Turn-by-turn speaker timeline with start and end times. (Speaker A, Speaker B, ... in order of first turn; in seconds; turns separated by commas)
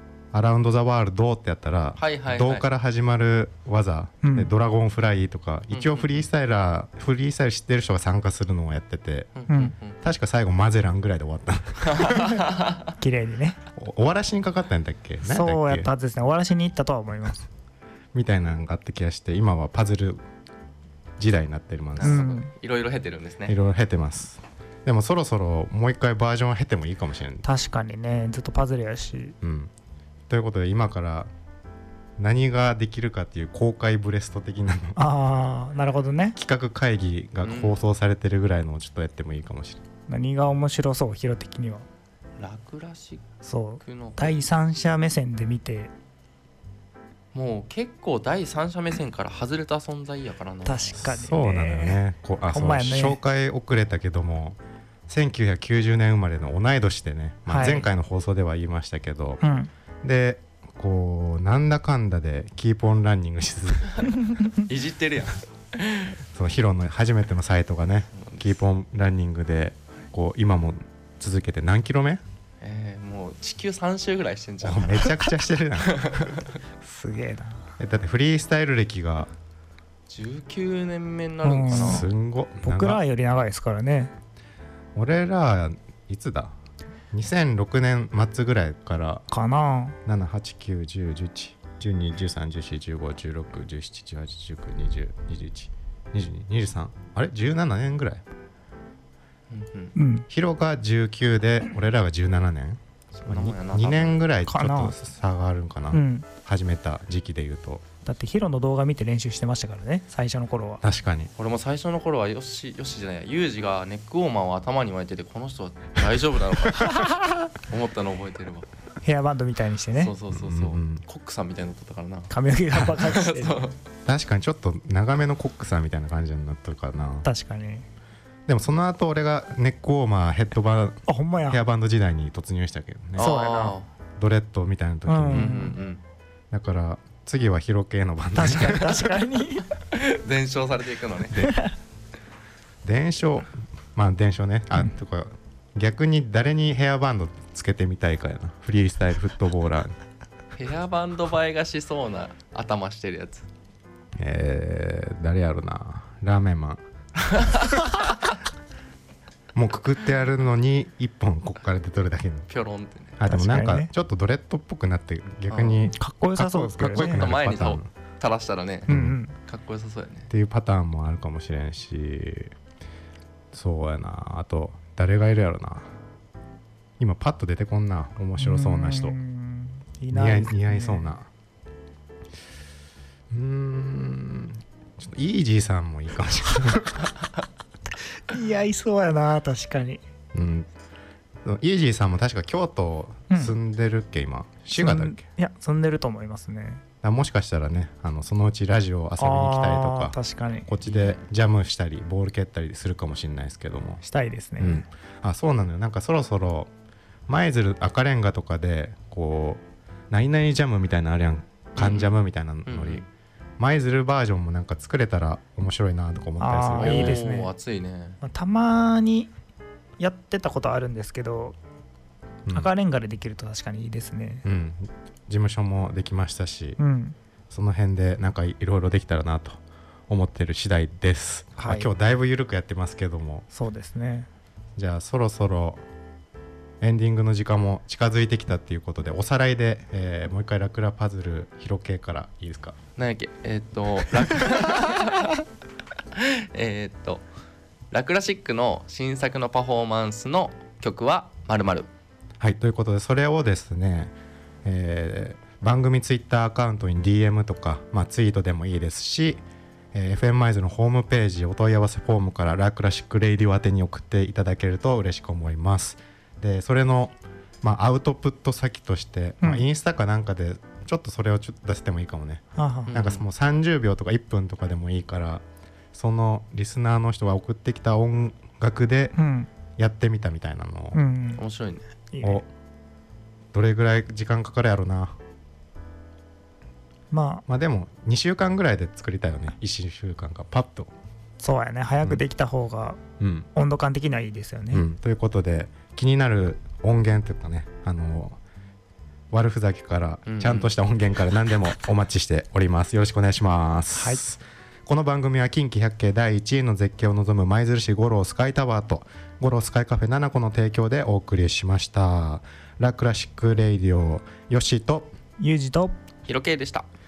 Speaker A: 0.3-9.5, Speaker B: 2.0-2.6, Speaker C: 4.2-4.5, Speaker B: 5.7-6.2, Speaker B: 9.4-10.0, Speaker C: 9.5-9.7, Speaker A: 10.0-12.2, Speaker B: 11.8-12.9, Speaker C: 13.0-13.6, Speaker A: 13.8-15.9, Speaker C: 15.2-17.5, Speaker A: 18.1-20.2, Speaker A: 21.2-22.2, Speaker B: 22.0-23.6, Speaker C: 22.0-22.5, Speaker A: 23.5-27.4, Speaker C: 27.4-29.4, Speaker A: 29.4-29.7, Speaker A: 30.3-31.3, Speaker A: 32.2-35.0, Speaker C: 35.0-36.4, Speaker A: 36.4-39.8, Speaker B: 37.4-37.8, Speaker C: 40.1-41.9, Speaker B: 42.4-43.2, Speaker C: 43.4-45.9, Speaker B: 43.8-44.4, Speaker B: 47.3-50.9, Speaker C: 50.6-53.2, Speaker A: 51.0-59.4, Speaker C: 57.5-57.9, Speaker C: 59.4-59.7, Speaker A: 60.0-64.1, Speaker B: 64.6-66.2, Speaker A: 66.3-72.2, Speaker B: 68.2-68.6, Speaker B: 72.6-75.3, Speaker A: 74.6-76.2, Speaker B: 75.9-76.3, Speaker C: 76.8-77.6, Speaker A: 77.8-79.3, Speaker B: 80.1-82.1, Speaker C: 81.4-82.1, Speaker A: 81.7-83.0, Speaker C: 82.6-84.1, Speaker A: 85.0-86.5, Speaker A: 87.1-89.2, Speaker C: 89.3-90.0, Speaker A: 90.0-98.2, Speaker B: 99.5-99.9, Speaker C: 100.0-100.3, Speaker A: 100.3-107.8, Speaker B: 103.2-104.2, Speaker C: 104.5-105.0, Speaker C: 105.9-106.3, Speaker C: 108.1-110.8, Speaker A: 110.8-111.3, Speaker B: 111.4-118.7, Speaker C: 119.0-120.1, Speaker B: 120.0-123.8, Speaker A: 120.3-121.0, Speaker C: 122.3-123.6, Speaker A: 124.1-127.3, Speaker C: 127.2-127.9, Speaker A: 128.5-131.0, Speaker C: 131.1-131.6, Speaker A: 131.5-133.3, Speaker B: 133.2-133.9, Speaker C: 133.2-133.8, Speaker A: 134.2-135.6, Speaker C: 135.1-135.8, Speaker B: 135.3-136.0, Speaker A: 136.5-139.1, Speaker C: 138.3-139.7, Speaker B: 139.9-141.4, Speaker A: 141.3-141.6, Speaker A: 142.8-149.9, Speaker B: 150.6-153.5, Speaker A: 154.2-156.8, Speaker B: 157.4-158.0, Speaker A: 159.6-162.5, Speaker B: 162.5-163.2, Speaker A: 163.2-167.9, Speaker C: 163.3-163.9, Speaker B: 165.5-165.8, Speaker C: 165.8-167.3, Speaker B: 166.9-168.9, Speaker A: 168.9-169.2, Speaker C: 168.9-169.3, Speaker B: 169.5-170.3, Speaker A: 170.3-172.5, Speaker A: 173.5-175.9, Speaker A: 177.0-179.2, Speaker C: 178.4-181.1, Speaker A: 180.1-181.3, Speaker A: 183.3-187.1, Speaker C: 188.3-190.0, Speaker A: 190.3-190.7, Speaker A: 191.4-195.2, Speaker C: 193.3-193.6, Speaker C: 194.8-196.8, Speaker A: 197.0-204.0, Speaker C: 199.2-200.7, Speaker B: 200.8-201.2, Speaker C: 204.0-204.8, Speaker A: 204.6-206.7, Speaker A: 207.3-213.0, Speaker B: 211.8-212.2, Speaker B: 212.7-213.1, Speaker A: 213.6-217.2, Speaker C: 216.4-217.5, Speaker B: 216.8-218.2, Speaker C: 218.2-219.3, Speaker C: 220.0-221.6, Speaker C: 222.5-224.4, Speaker A: 224.4-226.8, Speaker C: 226.8-227.2, Speaker A: 227.5-233.4, Speaker C: 231.6-231.9, Speaker C: 233.5-234.3, Speaker A: 234.8-235.8, Speaker A: 236.8-242.8, Speaker B: 243.0-245.4, Speaker B: 246.2-247.2, Speaker B: 247.9-251.9, Speaker A: 252.4-254.1, Speaker A: 254.7-259.4, Speaker A: 259.9-275.4, Speaker C: 272.6-272.9, Speaker B: 272.9-273.2, Speaker A: 275.9-279.2, Speaker C: 279.1-279.5, Speaker A: 279.8-281.0, Speaker C: 280.9-281.4, Speaker B: 281.4-281.9, Speaker C: 282.1-282.4, Speaker A: 282.2-282.5, Speaker A: 283.5-285.2, Speaker C: 287.1-287.4, Speaker A: 287.5-290.9, Speaker C: 291.4-293.0, Speaker A: 293.2-293.5, Speaker C: 293.5-294.9, Speaker A: 294.7-298.4, Speaker A: 299.3-315.1, Speaker B: 300.3-300.7, Speaker C: 303.9-304.2, Speaker C: 315.4-315.9, Speaker B: 316.3-316.9